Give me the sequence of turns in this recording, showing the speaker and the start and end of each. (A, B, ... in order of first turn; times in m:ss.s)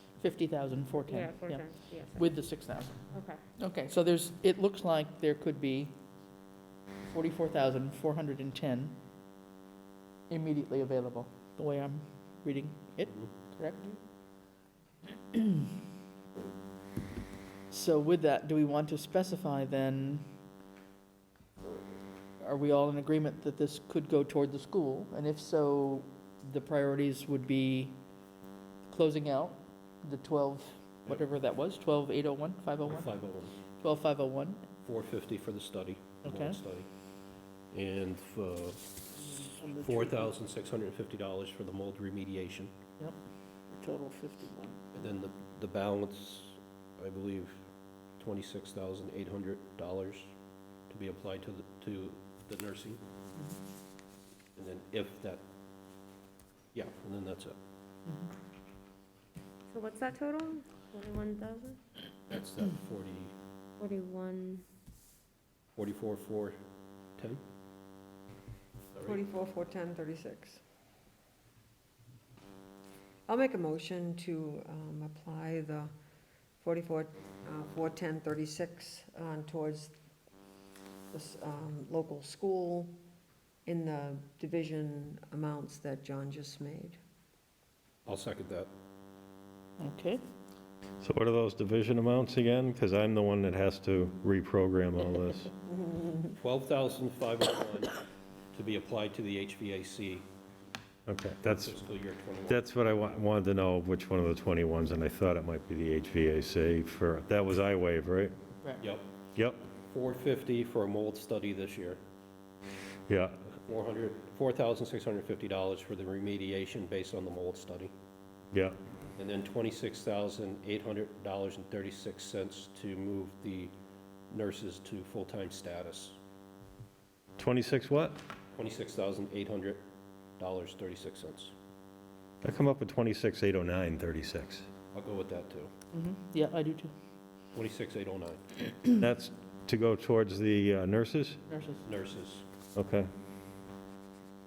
0:00.2-0:03.0 A
0:01.0-0:02.3 B
0:03.1-0:03.4 B
0:03.6-0:06.0 A
0:07.0-0:09.0 A
0:10.3-0:13.9 A
0:13.0-0:13.3 C
0:15.3-0:15.7 A
0:17.7-0:20.2 A
0:22.4-0:28.0 A
0:28.9-0:33.1 A
0:32.8-0:33.6 C
0:33.8-0:34.7 A
0:34.8-0:36.9 C
0:36.2-0:36.6 A
0:37.7-0:39.0 C
0:39.3-0:40.3 A
0:39.8-0:42.7 C
0:43.7-0:44.8 A
0:44.9-0:47.6 C
0:48.2-0:50.3 C
0:50.9-0:53.0 C
0:54.6-0:55.4 C
0:56.7-0:57.6 C
0:59.7-1:01.8 B
1:02.3-1:03.3 C
1:03.8-1:04.6 B
1:05.8-1:06.6 C
1:09.1-1:10.6 D
1:13.3-1:15.9 D
1:16.6-1:19.9 D
1:21.1-1:23.0 D
1:23.7-1:27.0 D
1:28.1-1:28.7 C
1:29.8-1:30.2 A
1:31.0-1:35.5 E
1:35.7-1:36.3 D
1:36.4-1:38.0 C
1:38.5-1:40.3 C
1:41.1-1:41.8 E
1:41.4-1:42.7 C
1:42.5-1:48.3 E
1:48.8-1:49.1 C
1:49.4-1:49.6 E
1:49.9-1:52.0 C
1:53.1-1:53.4 E
1:53.7-1:57.9 C
1:59.2-2:03.7 C
2:04.3-2:06.2 C
2:07.4-2:08.2 E
2:08.6-2:09.8 C
2:10.4-2:11.5 C
2:12.4-2:14.7 E
2:14.9-2:15.7 C
2:15.9-2:16.9 A
2:17.5-2:18.4 C
2:18.9-2:21.4 E
2:21.5-2:21.8 A
2:21.8-2:22.4 C
2:22.8-2:23.1 E